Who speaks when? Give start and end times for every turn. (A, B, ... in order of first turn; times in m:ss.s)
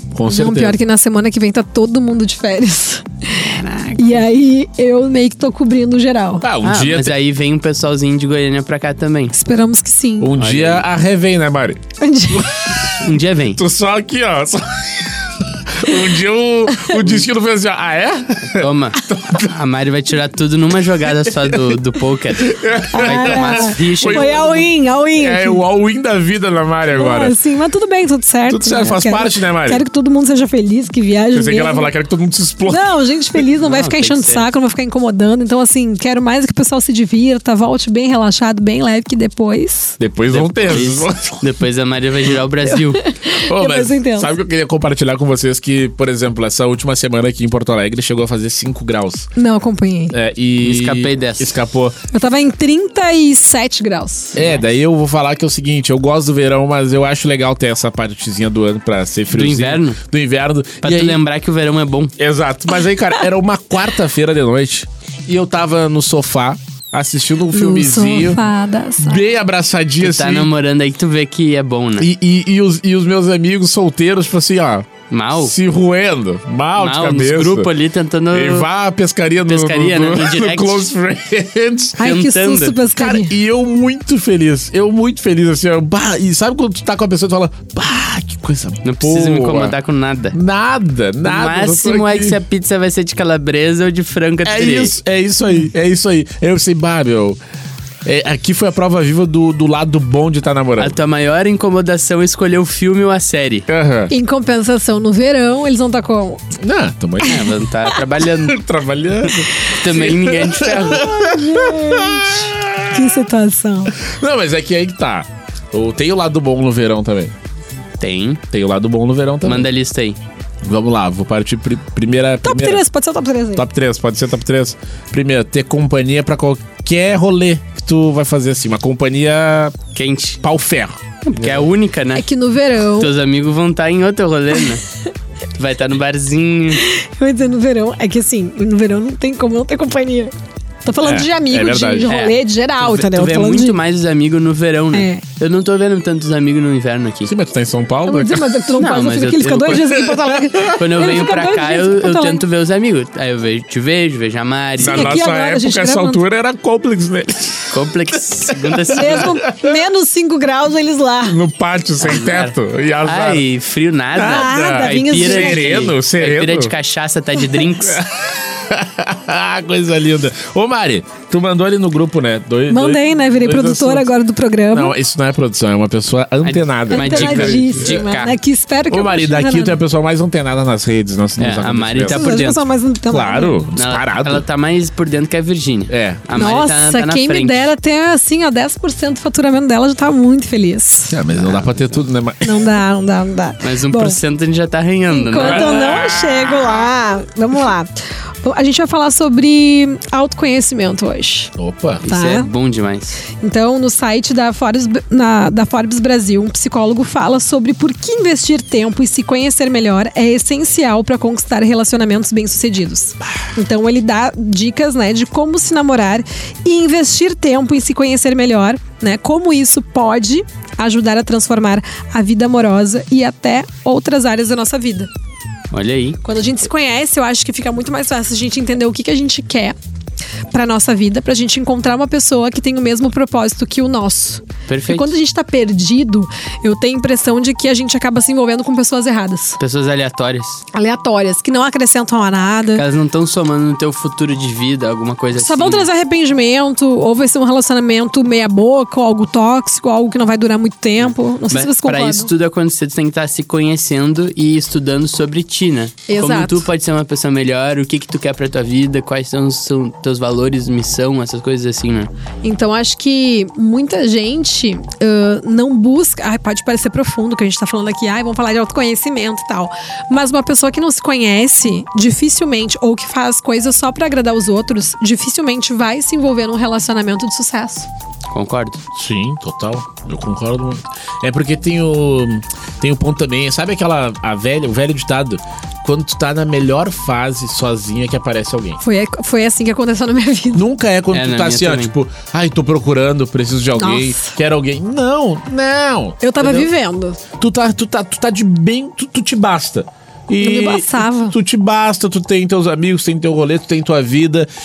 0:00.1-0:00.8 A
0:00.3-0:06.4 B
0:03.4-0:04.2 C
0:06.4-0:07.2 A
0:06.6-0:09.4 C
0:09.3-0:10.3 B
0:10.2-0:12.8 A
0:10.4-0:10.8 C
0:12.0-0:12.8 B
0:13.0-0:13.6 C
0:13.5-0:19.5 A
0:16.8-0:17.2 B
0:18.5-0:22.5 C
0:21.0-0:21.8 A
0:22.4-0:24.5 A
0:22.9-0:25.6 B
0:23.0-0:24.6 C
0:25.2-0:27.4 A
0:26.9-0:31.9 B
0:28.5-0:29.8 A
0:31.3-0:33.4 A
0:32.7-0:40.0 B
0:33.6-0:34.5 C
0:40.0-0:41.4 A
0:40.3-0:43.0 C
0:42.8-0:44.3 B
0:43.3-0:49.3 A
0:49.4-0:50.1 B
0:50.1-0:52.0 A
0:50.6-0:51.5 C
0:52.1-0:54.4 B
0:54.3-1:01.2 A
0:59.3-1:00.0 C
1:00.8-1:02.1 C
1:02.2-1:08.4 A
1:07.5-1:09.2 B
1:09.0-1:10.5 A
1:10.0-1:12.1 C
1:12.0-1:17.7 A
1:15.1-1:15.5 C
1:16.8-1:18.6 C
1:18.3-1:22.2 A
1:19.4-1:20.9 C
1:22.0-1:23.3 B
1:22.0-1:22.8 C
1:22.9-1:29.8 A
1:28.8-1:30.4 C
1:30.3-1:32.4 A
1:31.2-1:35.0 C
1:34.4-1:37.4 A
1:38.0-1:41.0 A
1:40.8-1:43.7 C
1:43.7-1:44.1 A
1:44.1-1:46.5 B
1:46.6-1:47.6 A
1:47.2-1:48.6 C
1:48.4-1:53.0 A
1:49.6-1:51.1 C
1:51.0-1:54.0 B
1:54.0-1:57.3 A
1:58.0-1:58.4 C
1:58.5-1:59.7 A
1:59.4-2:00.2 C
2:00.6-2:02.8 A
2:02.4-2:03.6 B
2:03.5-2:09.8 A
2:09.9-2:10.4 C
2:10.4-2:11.6 A
2:11.2-2:12.2 C
2:12.1-2:13.1 B
2:13.0-2:14.8 C
2:15.5-2:16.8 C
2:16.8-2:20.3 B
2:20.8-2:23.8 B
2:21.0-2:22.1 A
2:22.1-2:27.3 C
2:24.9-2:25.2 B
2:27.2-2:28.6 A
2:28.1-2:32.4 B
2:28.8-2:29.9 C
2:29.8-2:30.7 A
2:30.7-2:35.2 C
2:34.8-2:37.8 A
2:34.8-2:36.2 B
2:37.7-2:39.3 C
2:38.4-2:39.8 A
2:39.0-2:41.4 B
2:41.2-2:43.4 A
2:42.0-2:48.0 C
2:44.1-2:46.7 A
2:44.2-2:45.9 B
2:47.8-2:54.1 A
2:52.7-2:54.9 B
2:54.7-2:58.0 A
2:56.4-2:58.3 C
2:56.9-2:59.8 B
2:58.9-3:02.2 A
3:01.4-3:02.6 C
3:02.1-3:03.6 B
3:03.1-3:04.4 A
3:03.7-3:07.7 C
3:05.9-3:06.3 A
3:06.3-3:11.6 B
3:11.1-3:12.7 A
3:12.4-3:14.2 B
3:13.6-3:15.7 C
3:15.1-3:17.9 B
3:15.4-3:16.8 A
3:18.4-3:21.5 B
3:21.6-3:22.0 A
3:22.0-3:23.2 C
3:22.0-3:22.5 B
3:23.4-3:45.1 B
3:45.7-3:46.2 C
3:46.2-3:49.8 B
3:50.5-3:59.6 B
3:54.7-3:55.1 C
3:59.6-4:00.6 C
4:00.7-4:02.8 B
4:02.7-4:05.9 C
4:05.3-4:12.3 B
4:11.5-4:22.1 C
4:16.1-4:16.7 B
4:22.4-4:37.9 B
4:38.3-4:38.8 C
4:38.9-4:48.8 A
4:48.8-4:50.6 B
4:50.5-4:56.6 A
4:51.1-4:51.9 C
4:53.8-4:54.3 B
4:56.2-4:57.2 B
4:57.4-5:04.5 A
5:00.4-5:01.4 B